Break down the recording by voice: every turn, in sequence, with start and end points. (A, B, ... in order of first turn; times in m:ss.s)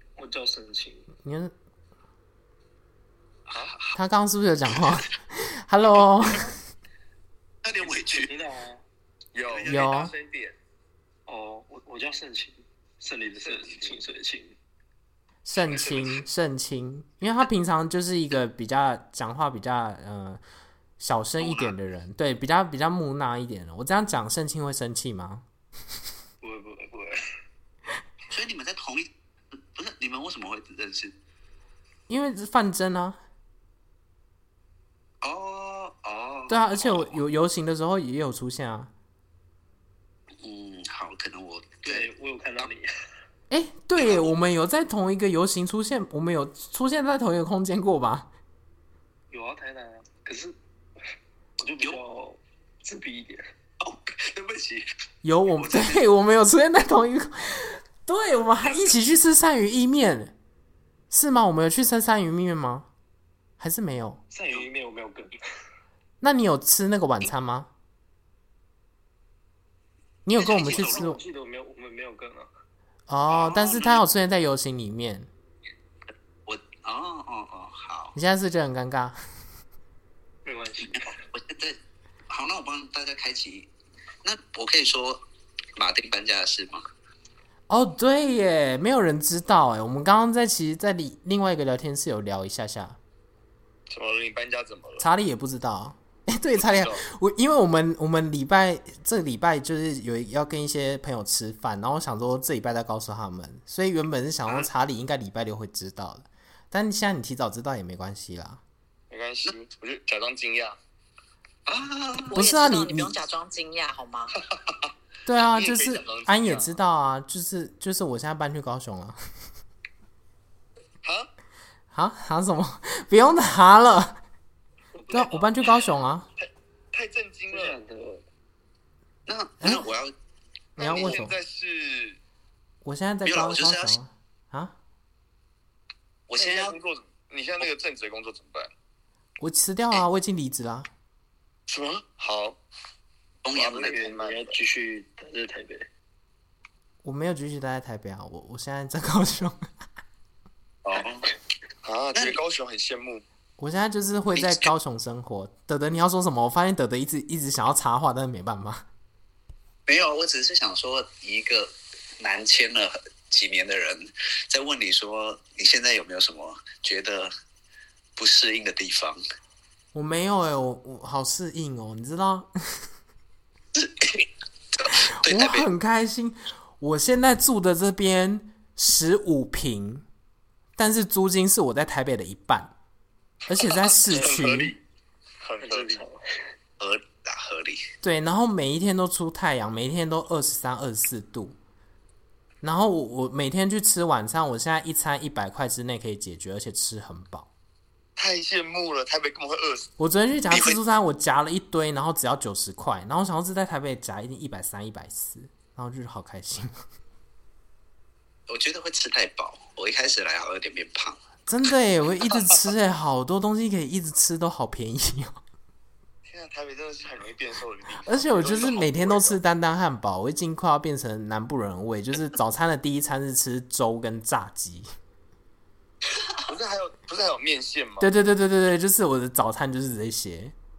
0:00.2-0:01.1 A
0:01.2-0:01.5 B
0:03.5-0:03.9 C
0:03.9-0:06.5 B
0:07.6-0:08.3 C
0:07.8-0:08.8 A
0:09.3-0:10.6 D
0:09.4-0:10.0 C
0:09.7-0:10.1 B
0:11.3-0:14.6 A
0:13.4-0:14.0 D
0:15.4-0:20.4 B
0:15.8-0:16.0 C
0:21.0-0:25.4 B
0:21.4-0:21.7 C
0:26.4-0:27.2 A
0:28.3-0:29.1 C
0:29.7-0:31.1 C
0:32.1-0:33.2 B
0:35.2-0:37.2 C
0:36.5-0:38.9 B
0:40.4-0:42.7 C
0:41.9-0:42.9 A
0:43.5-0:48.3 B
0:44.0-0:44.3 C
0:49.3-0:50.6 A
0:51.6-0:53.5 A
0:53.8-0:54.8 C
0:55.2-1:00.3 B
0:55.5-0:56.0 C
1:01.1-1:02.9 B
1:03.6-1:04.2 B
1:04.3-1:05.3 A
1:06.2-1:07.7 B
1:10.2-1:11.2 B
1:10.4-1:11.1 C
1:10.6-1:12.5 A
1:13.1-1:15.3 B
1:13.3-1:14.0 C
1:16.4-1:18.1 C
1:18.1-1:19.2 B
1:20.4-1:21.2 A
1:20.9-1:21.8 C
1:22.3-1:23.7 C
1:24.2-1:25.2 C
1:25.8-1:26.8 C
1:27.7-1:33.0 B
1:33.9-1:35.1 D
1:35.0-1:48.6 B
1:36.6-1:37.0 D
1:49.1-1:50.8 D
1:51.7-1:52.3 C
1:52.3-1:54.4 E
1:52.3-1:53.2 B
1:54.6-1:54.9 D
1:55.2-1:59.2 B
1:55.5-1:56.8 D
2:01.0-2:01.3 D
2:01.9-2:04.2 B
2:04.9-2:05.5 A
2:05.1-2:06.3 B
2:06.4-2:07.8 D
2:07.5-2:08.2 A
2:09.2-2:10.1 C
2:09.6-2:09.9 B
2:10.8-2:12.2 D
2:10.8-2:11.4 B
2:10.9-2:11.2 C
2:12.8-2:14.7 B
2:13.2-2:14.0 C
2:16.3-2:16.7 C
2:16.3-2:18.7 D
2:19.4-2:20.9 B
2:21.7-2:22.6 D
2:23.4-2:23.9 C
2:23.5-2:24.6 D
2:23.7-2:25.9 A
2:27.0-2:29.7 B
2:30.8-2:31.3 C
2:31.8-2:33.2 D
2:33.6-2:38.8 B
2:34.3-2:34.7 C
2:39.9-2:47.3 C
2:48.2-2:49.2 C
2:49.9-2:52.8 B
2:53.7-2:55.7 C
2:54.9-3:00.0 B
3:00.8-3:02.7 B
3:03.4-3:04.8 B
3:03.6-3:04.8 D
3:05.4-3:06.0 D
3:05.6-3:06.5 A
3:06.8-3:07.9 C
3:08.0-3:11.6 B
3:12.6-3:17.5 B
3:18.2-3:19.9 D
3:20.0-3:26.7 B
3:20.5-3:20.8 C
3:28.5-3:31.2 C
3:31.5-3:35.4 B
3:36.2-3:39.4 D
3:38.0-3:44.9 B
3:46.4-3:48.1 D
3:48.0-3:50.5 B